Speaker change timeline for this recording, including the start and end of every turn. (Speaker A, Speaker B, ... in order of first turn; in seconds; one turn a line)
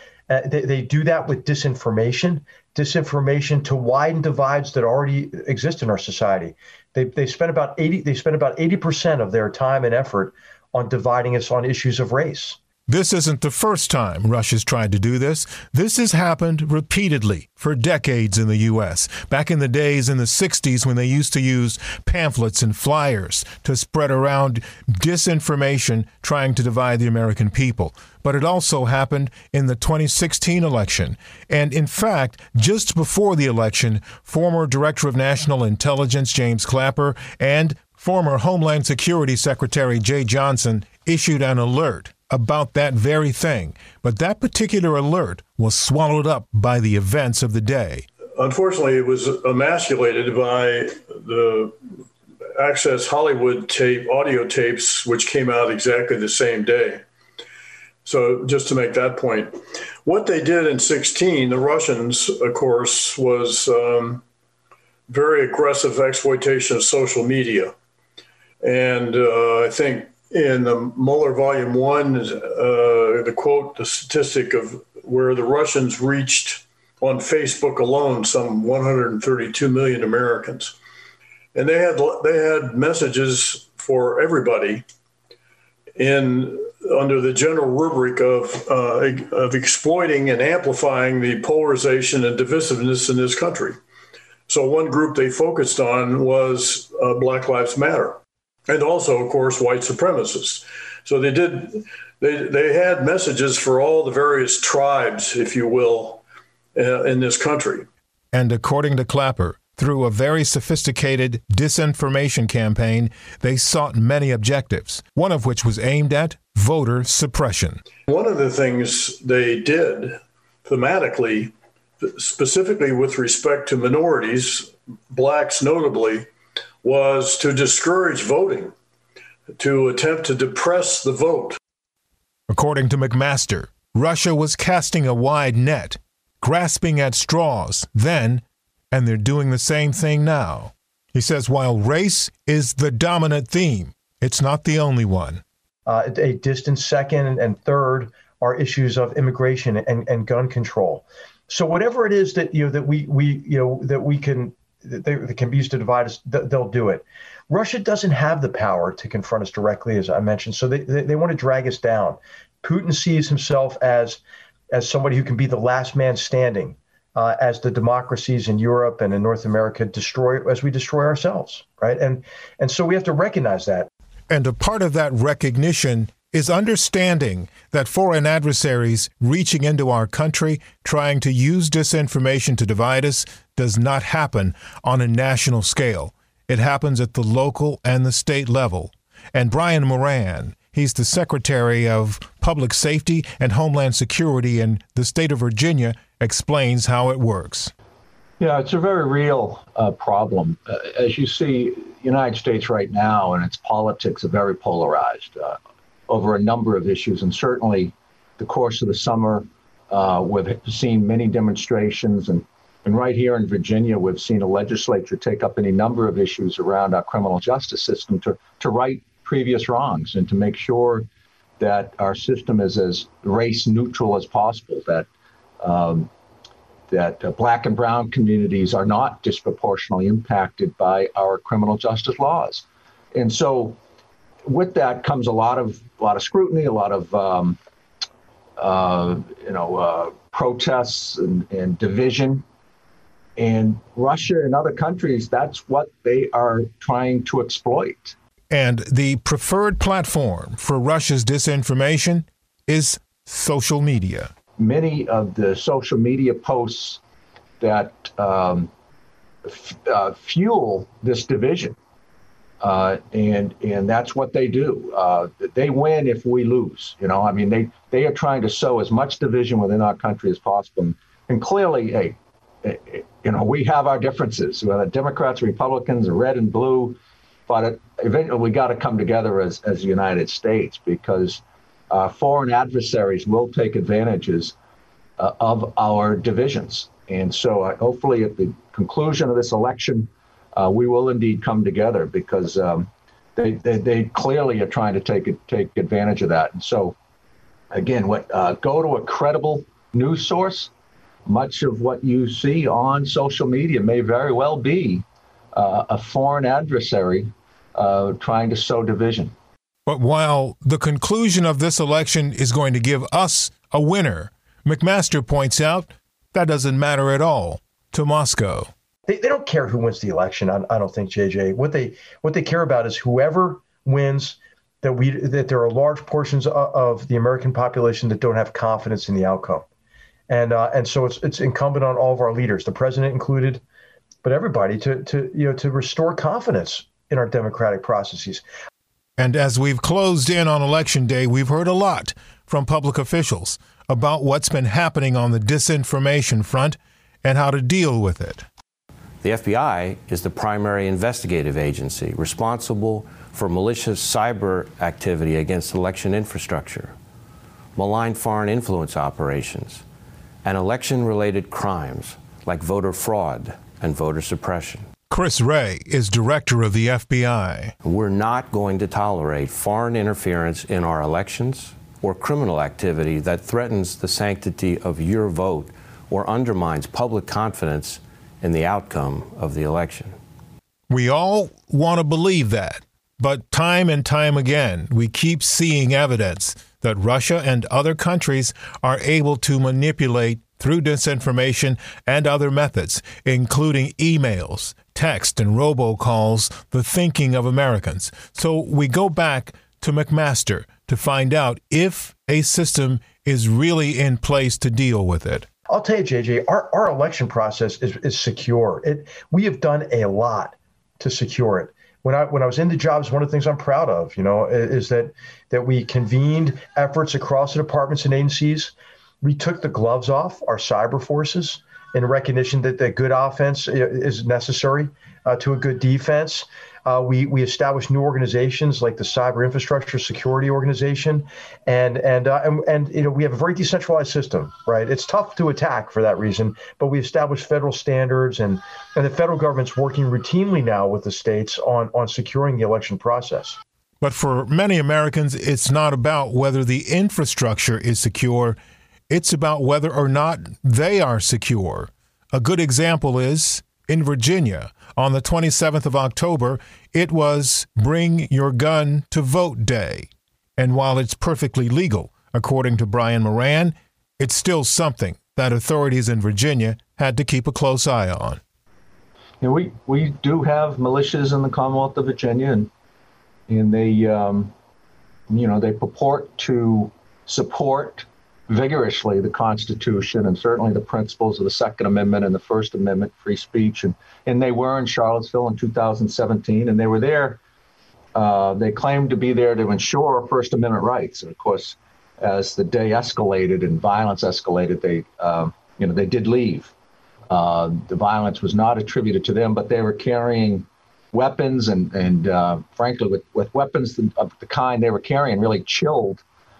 Speaker A: 0.3-12.6
Speaker B: 12.9-48.1
Speaker C: 48.4-51.8
Speaker C: 52.6-57.0
Speaker C: 58.0-64.2
Speaker C: 65.1-67.7
Speaker C: 68.6-80.7
Speaker C: 81.5-84.8
Speaker C: 86.0-93.8
Speaker C: 94.5-106.2
Speaker C: 106.7-107.9
Speaker B: 108.3-117.8
Speaker C: 118.1-126.3
Speaker C: 126.8-128.7
Speaker C: 129.5-131.6
Speaker B: 132.5-145.4
Speaker A: 145.8-164.2
Speaker A: 164.7-173.9
Speaker B: 174.3-197.7
Speaker D: 198.4-221.1
Speaker D: 221.6-225.1
Speaker D: 225.6-226.1
Speaker D: 226.9-233.8
Speaker D: 234.4-237.6
Speaker D: 238.6-242.4
Speaker D: 243.4-248.1
Speaker B: 248.5-254.3
Speaker D: 254.6-257.0
Speaker D: 257.6-258.7
Speaker D: 259.4-261.8
Speaker D: 262.6-284.5
Speaker D: 285.2-296.9
Speaker D: 297.7-300.7
Speaker D: 301.2-309.3
Speaker B: 309.9-318.7
Speaker A: 319.1-329.6
Speaker A: 330.3-333.6
Speaker A: 334.2-338.4
Speaker B: 339.2-348.4
Speaker E: 349.2-356.9
Speaker E: 357.8-359.8
Speaker E: 360.4-364.9
Speaker B: 365.1-367.7
Speaker E: 367.8-380.2
Speaker B: 380.9-405.5
Speaker A: 405.7-443.6
Speaker B: 444.0-448.6
Speaker B: 449.1-468.4
Speaker D: 469.4-472.7
Speaker D: 473.5-474.5
Speaker D: 475.3-487.4
Speaker D: 488.1-496.7
Speaker D: 497.3-506.2